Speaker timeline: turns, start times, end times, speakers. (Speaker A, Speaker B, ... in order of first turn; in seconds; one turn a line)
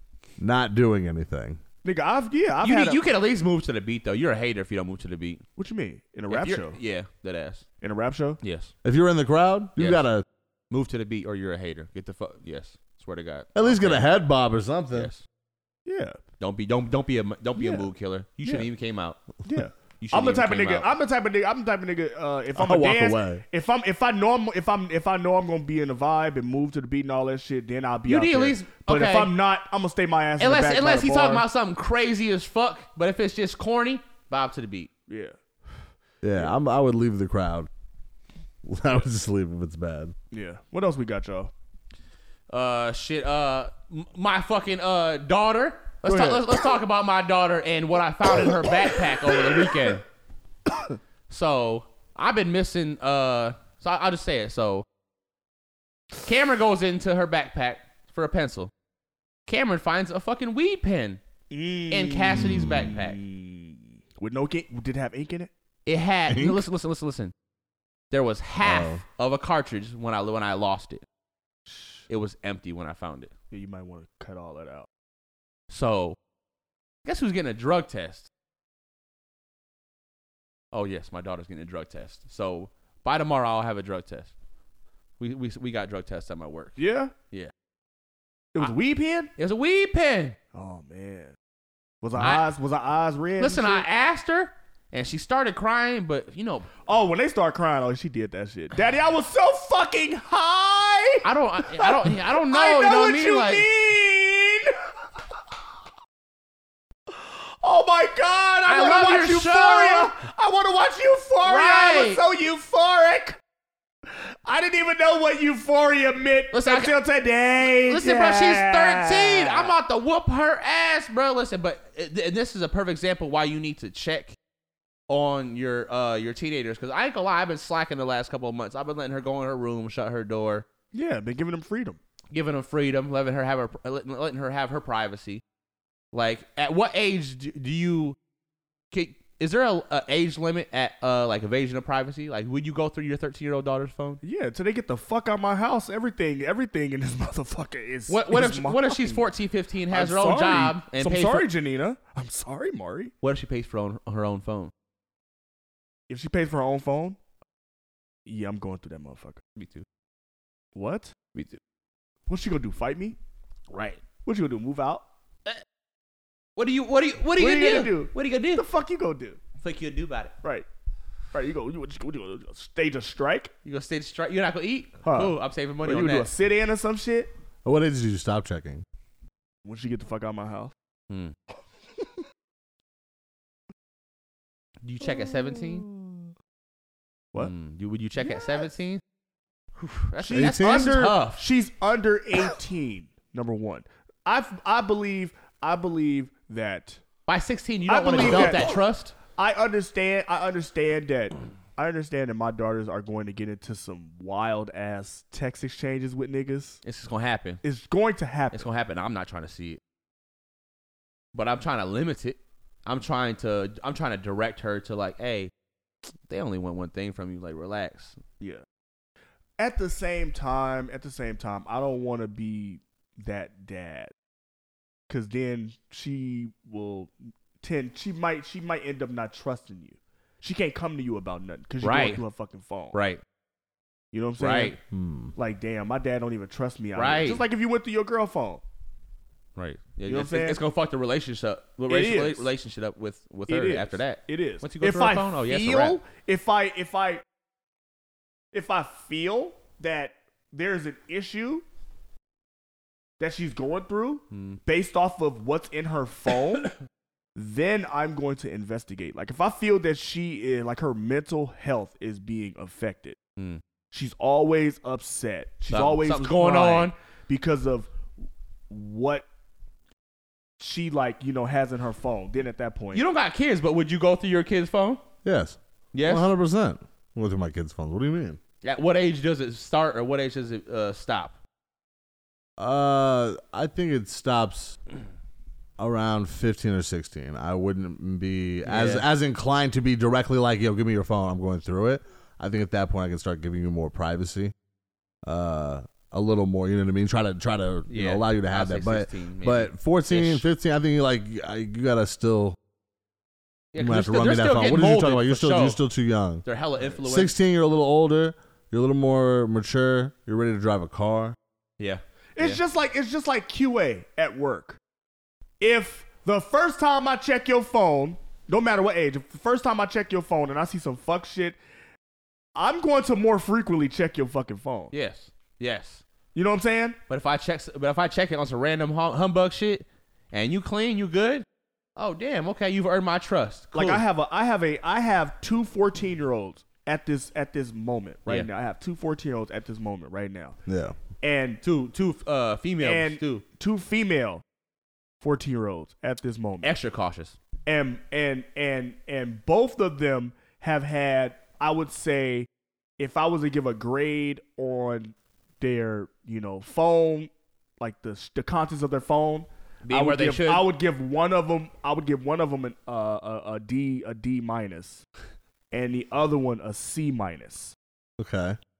Speaker A: 0.4-1.6
Speaker B: 1.8-3.0
Speaker C: 2.6-5.4
Speaker B: 5.6-6.8
Speaker C: 6.3-7.6
Speaker B: 7.8-8.4
Speaker C: 8.4-8.7
Speaker A: 8.8-10.2
Speaker C: 9.8-10.0
Speaker C: 10.7-14.1
Speaker A: 13.6-15.1
Speaker C: 14.9-15.2
Speaker B: 15.9-16.2
Speaker C: 16.4-19.2
Speaker B: 17.6-17.9
Speaker B: 19.4-31.4
Speaker C: 20.0-20.9
Speaker A: 22.6-23.4
Speaker C: 28.1-29.3
Speaker C: 30.4-34.9
Speaker B: 35.1-35.3
Speaker A: 36.2-37.7
Speaker A: 38.6-40.1
Speaker B: 40.3-41.5
Speaker C: 42.5-50.0
Speaker B: 46.0-46.5
Speaker C: 51.3-54.9
Speaker C: 56.2-58.7
Speaker C: 59.5-61.2
Speaker B: 61.5-65.5
Speaker C: 61.9-63.2
Speaker A: 62.3-62.9
Speaker C: 65.9-67.3
Speaker A: 66.3-66.6
Speaker C: 68.1-71.0
Speaker A: 68.6-69.0
Speaker B: 71.7-72.0
Speaker C: 72.1-73.3
Speaker B: 73.5-74.9
Speaker C: 75.7-76.2
Speaker C: 77.0-78.3
Speaker C: 80.7-84.3
Speaker C: 85.2-86.8
Speaker B: 86.8-87.1
Speaker B: 88.5-89.3
Speaker C: 89.4-90.4
Speaker B: 90.5-91.3
Speaker B: 92.0-93.9
Speaker C: 92.2-92.5
Speaker C: 93.4-96.7
Speaker B: 96.9-104.8
Speaker C: 101.2-103.7
Speaker B: 107.1-113.4
Speaker C: 108.7-110.1
Speaker C: 111.4-112.2
Speaker B: 114.5-119.7
Speaker C: 116.5-116.9
Speaker C: 117.6-124.4
Speaker C: 125.1-130.7
Speaker B: 130.9-132.0
Speaker C: 132.3-135.4
Speaker C: 136.1-138.2
Speaker C: 138.9-144.2
Speaker B: 144.2-149.3
Speaker C: 148.1-151.5
Speaker B: 149.9-153.1
Speaker C: 153.2-154.7
Speaker B: 156.1-157.2
Speaker B: 158.3-159.4
Speaker C: 159.6-159.8
Speaker B: 160.8-161.1
Speaker B: 162.3-163.2
Speaker C: 163.7-164.0
Speaker B: 164.2-165.0
Speaker C: 166.6-168.6
Speaker B: 167.4-169.4
Speaker C: 169.6-170.3
Speaker B: 171.3-173.5
Speaker C: 173.7-176.3
Speaker B: 175.1-177.3
Speaker A: 177.6-178.8
Speaker B: 179.7-180.7
Speaker C: 181.1-181.3
Speaker C: 184.8-185.9
Speaker B: 185.9-186.1
Speaker C: 187.4-189.0
Speaker C: 189.8-191.4
Speaker B: 190.2-197.0
Speaker A: 190.3-191.0
Speaker C: 197.3-199.1
Speaker B: 197.9-198.8
Speaker A: 198.2-198.7
Speaker B: 199.4-206.8
Speaker C: 206.8-207.6
Speaker B: 207.6-208.6
Speaker C: 208.5-209.8
Speaker C: 211.3-215.5
Speaker C: 216.3-218.2
Speaker B: 219.6-224.1
Speaker B: 225.1-233.0
Speaker C: 231.8-232.2
Speaker C: 232.9-233.2
Speaker B: 234.1-234.8
Speaker C: 234.4-234.8
Speaker A: 234.9-235.3
Speaker B: 235.4-238.6
Speaker C: 237.0-237.4
Speaker C: 239.6-246.0
Speaker B: 240.1-240.6
Speaker B: 241.9-242.5
Speaker B: 243.5-247.2
Speaker B: 248.5-251.6
Speaker B: 253.2-256.7
Speaker C: 254.3-254.6
Speaker B: 257.4-263.2
Speaker B: 263.9-267.9
Speaker C: 265.7-266.9
Speaker B: 268.7-269.2
Speaker B: 270.6-273.0
Speaker C: 272.9-275.0
Speaker A: 275.2-278.4
Speaker C: 275.9-276.3
Speaker C: 278.6-281.4
Speaker A: 282.6-284.8
Speaker A: 285.8-294.5
Speaker C: 288.6-289.1
Speaker A: 295.2-302.6
Speaker C: 297.9-300.5
Speaker C: 303.7-305.8
Speaker A: 303.8-306.4
Speaker C: 306.4-307.3
Speaker A: 307.0-311.4
Speaker C: 311.8-312.6
Speaker B: 312.4-314.8
Speaker B: 315.6-321.6
Speaker B: 322.6-324.9
Speaker C: 324.9-326.0
Speaker B: 326.4-327.0
Speaker C: 327.1-334.0
Speaker B: 333.7-340.6
Speaker A: 340.7-341.0
Speaker B: 341.2-341.6
Speaker C: 341.6-343.4
Speaker B: 342.8-344.4
Speaker B: 345.2-346.7
Speaker C: 346.6-347.4
Speaker B: 347.7-352.5
Speaker B: 353.0-365.0
Speaker C: 359.9-360.7
Speaker B: 365.7-367.8
Speaker A: 368.2-368.6